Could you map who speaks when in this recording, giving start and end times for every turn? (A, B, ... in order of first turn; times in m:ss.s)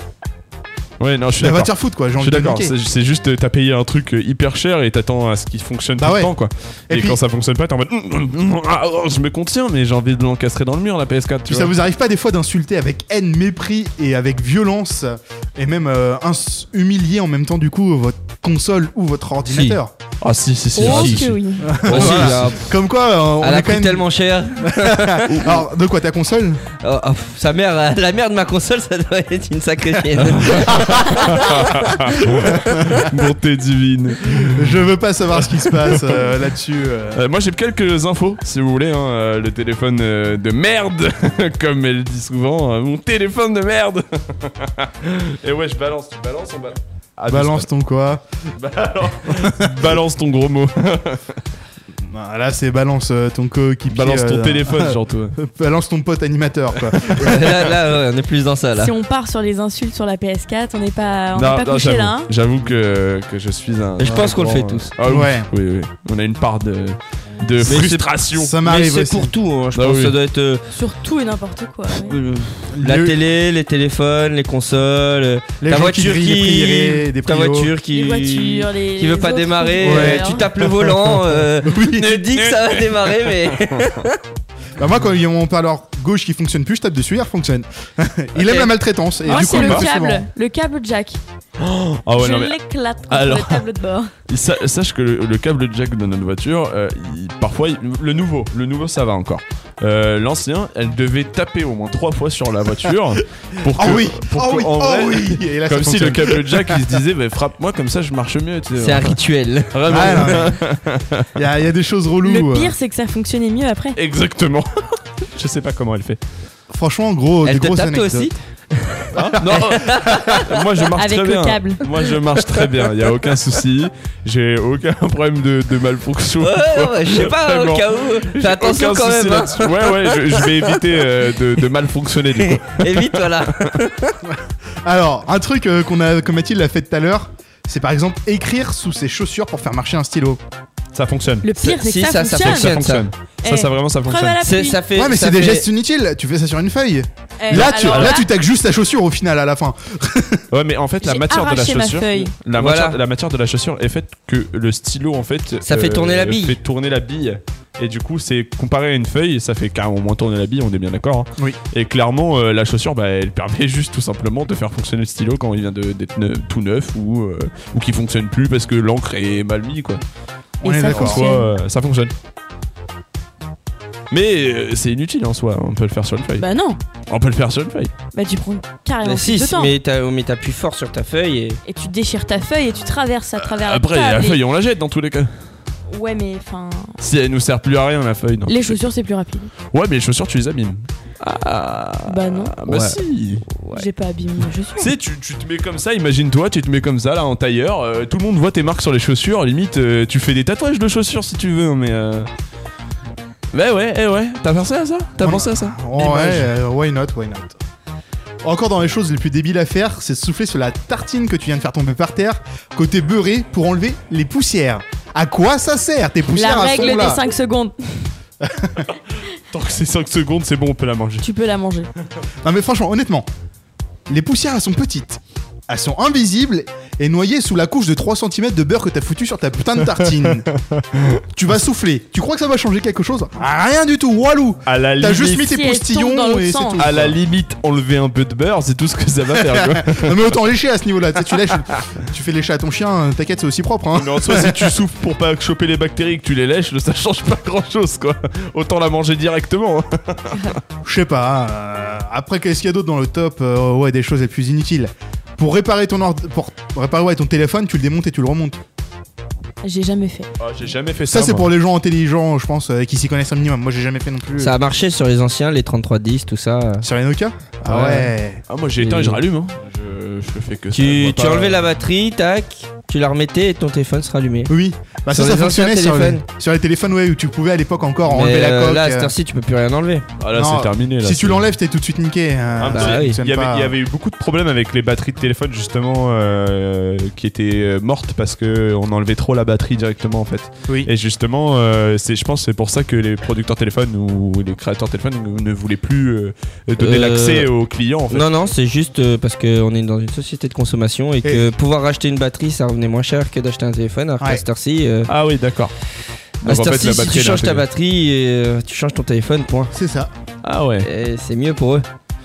0:01.0-0:11.8 A
0:01.4-0:02.7 B
0:06.0-0:06.3 B
0:06.9-0:07.2 B
0:11.5-0:19.9 B
0:19.5-0:19.8 C
0:20.2-0:22.5 A
0:20.8-0:21.8 D
0:20.8-0:21.1 C
0:21.6-0:26.6 B
0:21.8-0:22.7 C
0:23.4-0:25.5 C
0:26.8-0:31.8 C
0:30.3-0:34.8 A
0:32.4-0:33.1 B
0:34.4-0:37.2 B
0:35.4-0:36.2 A
0:37.1-0:47.7 A
0:47.3-0:48.2 B
0:48.6-0:51.4 A
0:49.3-0:49.8 B
0:52.1-0:57.6 B
0:53.9-0:55.4 A
0:57.2-0:58.9 C
0:58.8-1:02.3 D
1:01.3-1:08.6 A
1:04.0-1:04.9 C
1:05.0-1:05.5 B
1:07.6-1:08.1 C
1:08.3-1:09.3 B
1:08.6-1:10.6 C
1:09.8-1:10.2 A
1:10.7-1:12.2 D
1:12.0-1:24.2 C
1:12.7-1:13.2 B
1:15.6-1:17.7 B
1:17.9-1:20.4 D
1:19.8-1:22.2 B
1:22.4-1:23.4 A
1:24.8-1:30.3 B
1:28.4-1:28.7 C
1:29.3-1:31.2 D
1:29.3-1:29.9 A
1:31.6-1:33.7 A
1:32.2-1:34.1 D
1:34.3-1:49.2 A
1:43.7-1:47.0 B
1:48.8-1:50.4 C
1:49.7-1:51.3 A
1:49.8-1:50.6 B
1:51.4-1:52.7 B
1:52.2-1:54.0 D
1:54.0-1:56.2 A
1:56.7-1:58.3 B
1:57.4-2:00.5 C
1:59.1-2:13.8 A
1:59.2-2:00.4 B
2:01.0-2:01.8 D
2:06.4-2:10.7 C
2:12.4-2:14.2 C
2:14.8-2:20.4 B
2:20.9-2:21.5 A
2:21.4-2:22.8 D
2:21.6-2:23.1 C
2:22.3-2:24.5 A
2:23.4-2:24.8 D
2:24.4-2:25.7 C
2:25.0-2:30.4 B
2:27.4-2:28.3 D
2:27.5-2:28.2 A
2:30.5-2:50.0 A
2:31.0-2:32.3 D
2:32.6-2:33.0 C
2:35.6-2:36.6 C
2:50.6-2:51.2 B
2:50.6-2:51.5 D
2:50.8-2:52.1 A
2:54.1-2:56.5 A
2:56.4-2:56.8 D
2:57.1-2:57.9 A
2:58.1-2:59.7 D
2:59.0-3:01.6 C
3:01.7-3:04.4 D
3:03.4-3:05.4 A
3:05.9-3:07.0 D
3:07.0-3:08.8 A
3:08.5-3:09.5 D
3:09.7-3:13.5 A
3:12.1-3:12.6 D
3:12.7-3:13.0 C
3:13.5-3:13.9 C
3:13.7-3:14.9 D
3:14.8-3:22.3 A
3:23.5-3:26.5 A
3:25.2-3:27.6 B
3:28.4-3:37.2 B
3:36.3-3:38.1 D
3:38.4-3:38.9 B
3:39.5-3:41.3 A
3:41.2-3:41.9 D
3:42.4-3:43.3 B
3:44.1-3:50.5 B
3:50.2-3:51.2 A
3:51.3-3:57.2 B
3:54.7-3:55.5 A
3:55.4-3:56.8 D
3:56.8-4:00.3 A
3:59.3-4:04.7 B
4:03.9-4:10.6 A
4:10.3-4:10.6 D
4:10.8-4:18.6 B
4:19.6-4:20.3 D
4:20.4-4:21.5 A
4:21.1-4:24.5 B
4:24.4-4:26.9 C
4:26.8-4:28.4 B
4:27.7-4:28.1 C
4:28.5-4:31.6 A
4:28.8-4:29.2 C
4:30.7-4:34.5 C
4:34.5-4:39.1 B
4:35.1-4:36.2 C
4:38.1-4:40.1 C
4:40.2-4:41.5 A
4:40.3-4:43.7 B
4:42.6-4:58.3 A
4:42.7-4:43.2 C
4:56.8-4:57.5 C
4:58.1-5:05.1 C
5:01.2-5:01.5 B
5:05.1-5:05.7 A
5:06.4-5:07.6 A
5:06.4-5:09.7 C
5:09.7-5:10.1 B
5:10.4-5:10.9 A
5:10.8-5:11.9 C